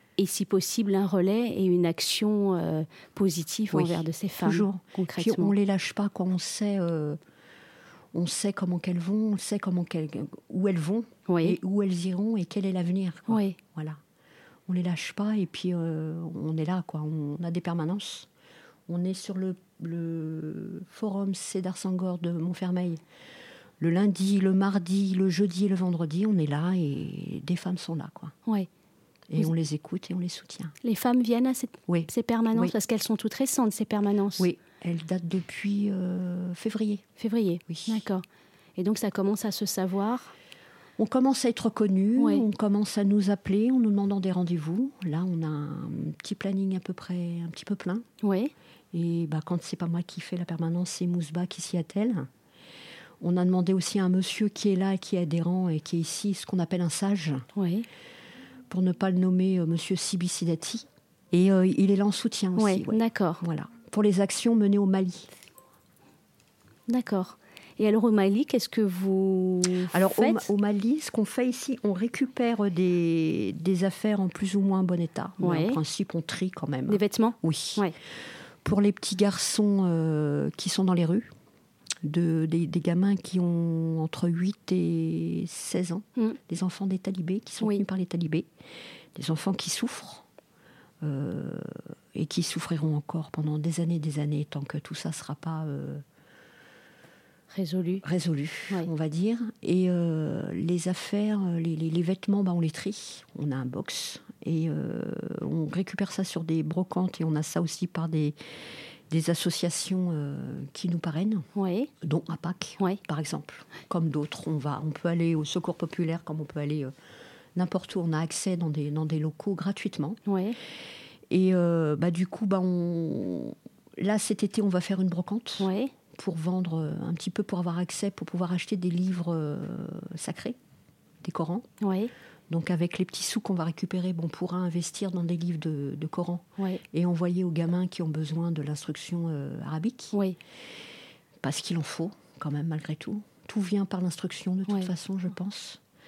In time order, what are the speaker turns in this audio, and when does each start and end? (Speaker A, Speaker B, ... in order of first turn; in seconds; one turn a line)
Speaker A: 0.2-5.5
Speaker B: 3.7-7.2
Speaker B: 8.1-14.0
Speaker A: 11.3-11.6
Speaker A: 13.3-13.6
Speaker B: 14.7-18.3
Speaker B: 18.9-23.0
Speaker B: 23.8-28.3
Speaker B: 29.3-30.8
Speaker A: 30.8-34.5
Speaker B: 31.9-32.8
Speaker B: 34.4-37.0
Speaker A: 37.2-38.2
Speaker B: 37.7-38.0
Speaker A: 38.8-40.3
Speaker B: 41.0-48.0
Speaker A: 42.2-42.4
Speaker A: 48.2-48.5
Speaker B: 48.9-52.3
Speaker B: 53.2-57.5
Speaker A: 57.5-57.9
Speaker B: 58.7-65.3
Speaker A: 62.6-63.4
Speaker A: 66.9-70.5
Speaker B: 69.8-77.8
Speaker A: 75.4-75.8
Speaker A: 76.9-77.9
Speaker B: 78.6-81.3
Speaker B: 82.0-88.5
Speaker B: 89.1-90.2
Speaker B: 91.0-96.0
Speaker A: 97.5-98.0
Speaker B: 98.0-108.3
Speaker B: 109.1-111.5
Speaker A: 111.5-111.9
Speaker B: 112.0-116.9
Speaker B: 117.5-120.2
Speaker A: 120.2-120.6
Speaker B: 121.3-130.6
Speaker A: 125.6-125.9
Speaker B: 131.2-131.7
Speaker A: 131.8-132.1
Speaker B: 132.5-140.1
Speaker B: 141.4-145.8